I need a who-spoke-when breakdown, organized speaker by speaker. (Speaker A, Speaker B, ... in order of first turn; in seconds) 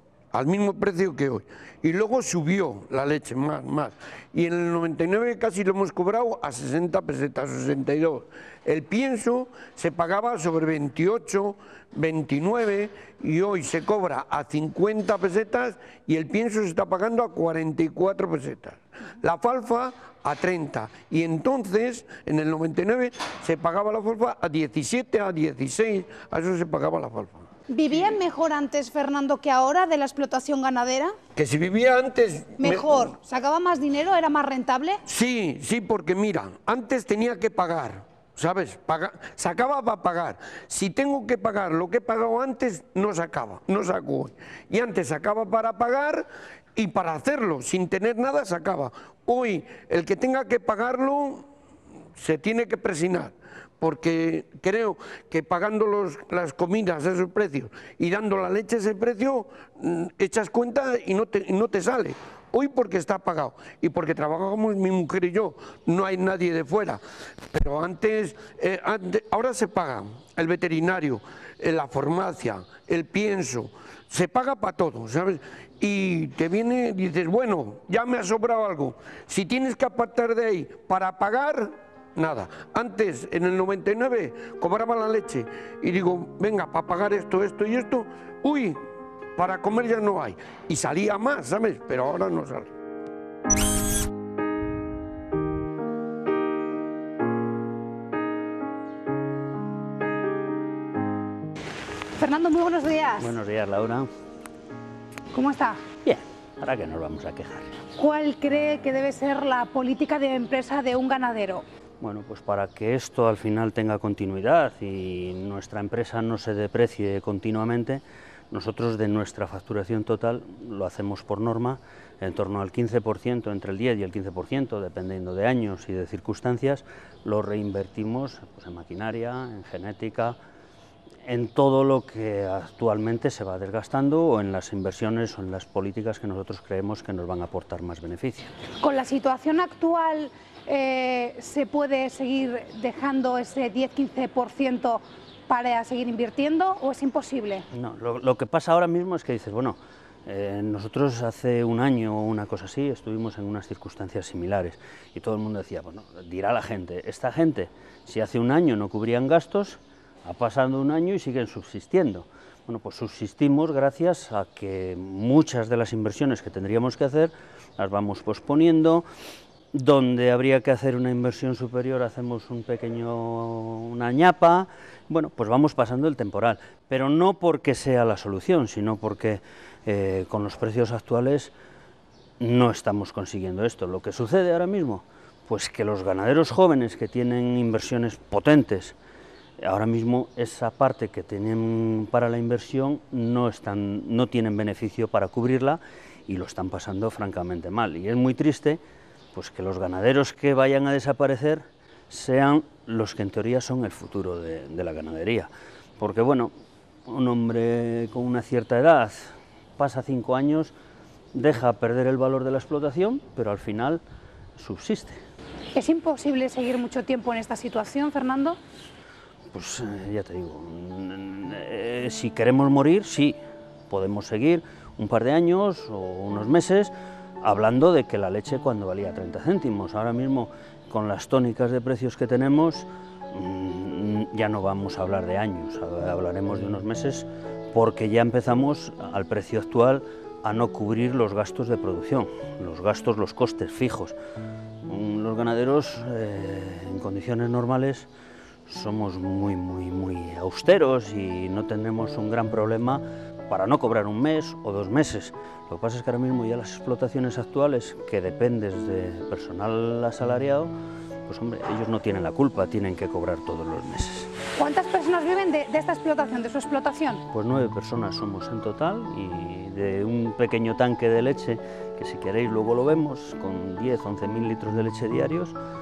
Speaker A: 0.3-27.5, 31.4-33.1, 35.1-51.5, 52.2-88.8, 89.4-92.7
Speaker B: 27.7-31.2, 32.6-35.0, 102.2-103.3, 105.3-105.8, 108.0-111.6, 138.8-147.7, 215.8-218.6, 264.6-267.2
Speaker C: 103.2-104.1, 106.0-107.7, 112.0-130.4, 131.2-138.5, 147.7-169.1, 169.7-181.5, 182.4-188.9, 189.6-198.8, 199.3-206.5, 207.1-210.7, 211.3-214.0, 214.6-215.2, 219.5-223.4, 223.9-244.2, 244.9-248.1, 248.7-260.7, 261.3-264.3, 267.3-275.6